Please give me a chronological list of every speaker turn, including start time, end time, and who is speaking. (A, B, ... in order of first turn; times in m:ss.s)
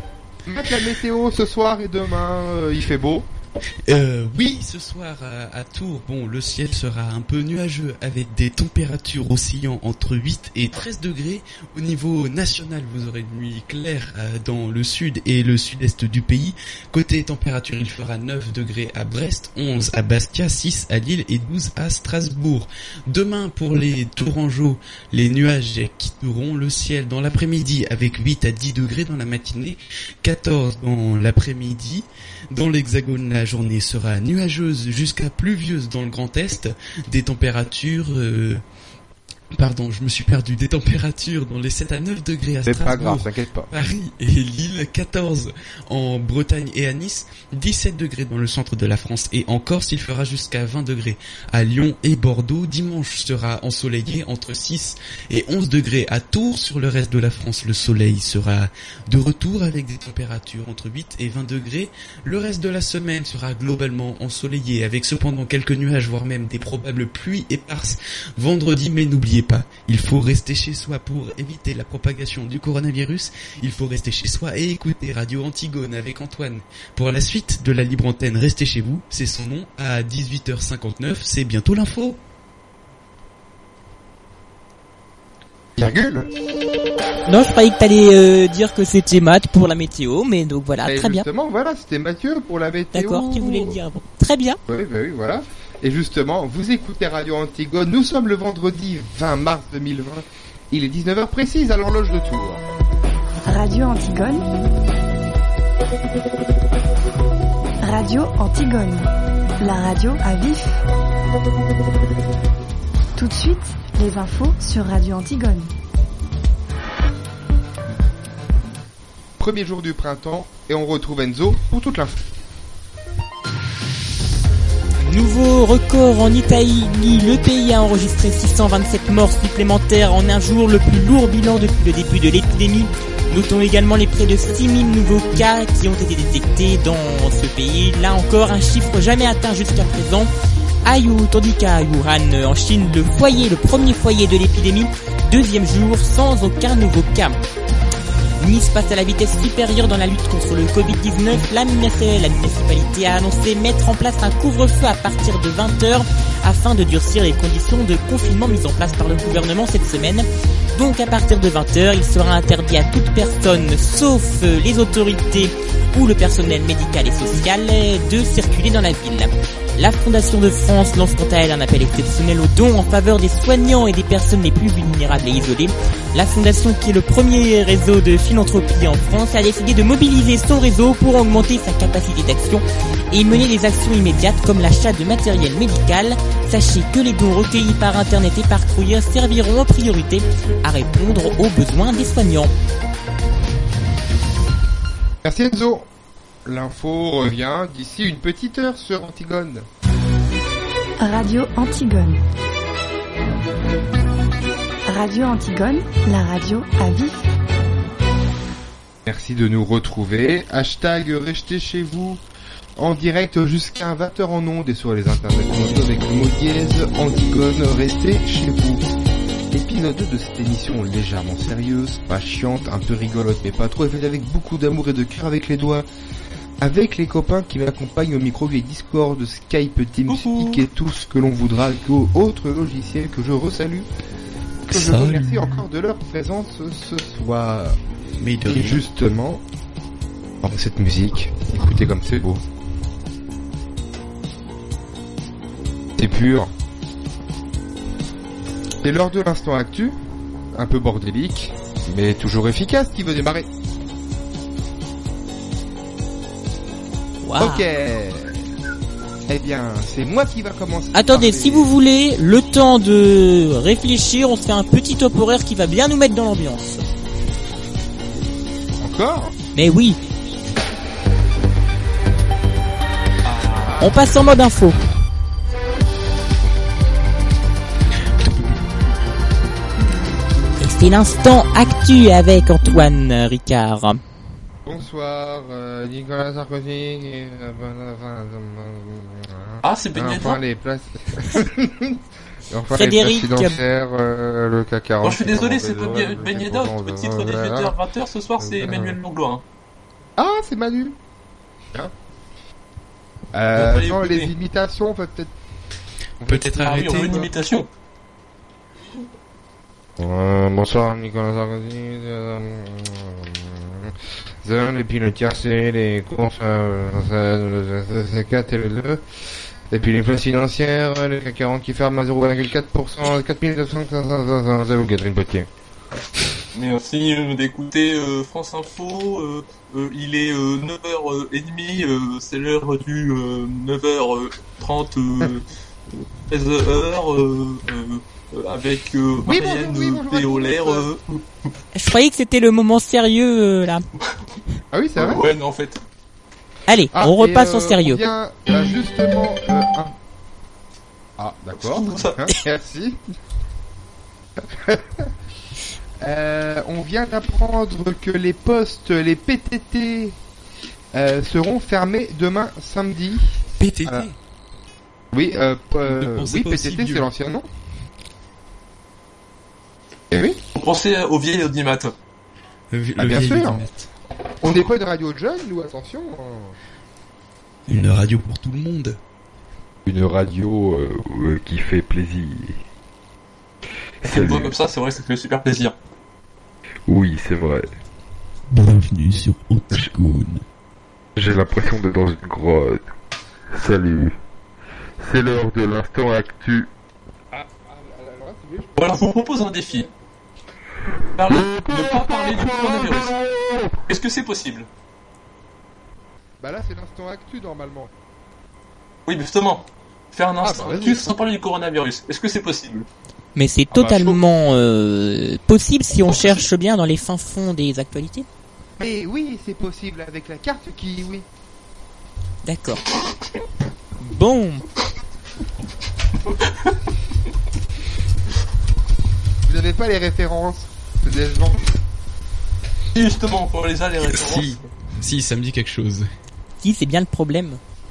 0:00.4-0:03.3 A
0:03.9-0:38.6 B
0:39.5-1:22.2 B
0:42.6-0:43.7 A
1:25.8-1:26.3 A
1:27.2-1:31.2 C
1:30.8-1:33.8 A
1:32.9-1:34.6 C
1:34.7-1:42.6 A
1:43.4-1:44.5 D
1:47.8-1:50.8 D
1:53.2-1:55.7 D
1:59.4-2:02.2 A
2:05.0-2:20.3 C
2:20.8-2:27.4 C
2:28.4-3:12.5 C
3:15.2-3:15.9 A
3:16.4-3:19.7 A
3:21.0-3:22.2 D
3:24.8-3:27.2 D
3:29.0-3:32.2 A
3:32.8-3:38.8 A
3:39.5-3:45.8 A
3:46.6-3:53.9 A
3:50.1-3:50.6 E
3:54.7-3:55.4 B
3:54.7-3:57.8 A
3:58.2-3:58.8 B
3:58.4-3:59.4 A
4:00.4-4:02.4 A
4:06.0-4:06.5 A
4:08.8-4:10.0 A
4:10.5-4:13.5 A
4:17.2-4:17.6 C
4:17.4-4:18.4 A
4:19.3-4:21.7 A
4:20.9-4:26.8 C
4:28.8-4:29.3 A
4:29.5-4:30.0 C
4:33.2-4:33.9 E
4:33.8-4:34.8 C
4:38.2-4:38.5 B
4:40.6-4:44.0 C
4:44.6-4:52.0 A
4:49.6-4:50.4 E
4:52.5-4:57.8 A
4:52.7-4:53.6 C
4:55.0-4:59.4 E
4:58.4-4:59.0 A
5:00.2-5:01.0 A
5:03.3-5:05.3 A
5:03.6-5:04.3 E
5:06.2-5:07.3 A
5:06.2-5:07.3 B
5:06.6-5:07.7 E
5:10.0-5:19.0 A
5:19.7-5:25.5 A
5:26.5-5:35.4 E
5:36.3-5:41.2 E
5:39.2-5:40.9 A
5:41.7-5:43.8 C
5:44.7-5:45.2 A
5:45.0-5:45.8 E
5:46.7-5:48.0 C
5:46.9-5:49.9 A
5:51.2-5:53.0 A
5:51.5-5:52.2 E
5:54.4-5:55.1 A
5:56.0-6:00.2 A
6:00.9-6:04.1 A
6:03.6-6:04.1 B
6:05.1-6:07.5 A
6:05.8-6:07.0 B
6:10.1-6:10.4 A
6:10.5-6:11.9 E
6:12.7-6:13.9 B
6:13.0-6:13.6 A
6:14.4-6:16.6 A
6:17.7-6:19.0 B
6:19.8-6:20.6 A
6:20.4-6:22.6 F
6:24.0-6:24.5 F
6:24.0-6:25.7 E
6:26.9-6:27.7 F
6:28.5-6:30.4 B
6:31.2-6:32.8 F
6:33.5-6:34.1 F
6:35.0-6:36.7 F
6:37.3-6:38.8 A
6:38.8-6:39.9 E
6:41.2-6:43.2 E
6:43.9-6:44.7 E
6:46.4-6:47.9 A
6:49.0-6:52.8 E
6:50.4-6:51.1 A
6:53.4-6:58.2 C
6:53.7-6:54.2 A
6:58.8-7:01.2 A
7:02.4-7:02.8 C
7:04.0-7:04.6 C
7:09.5-7:11.6 A
7:12.9-7:14.6 E
7:14.0-7:16.1 B
7:16.6-7:17.6 C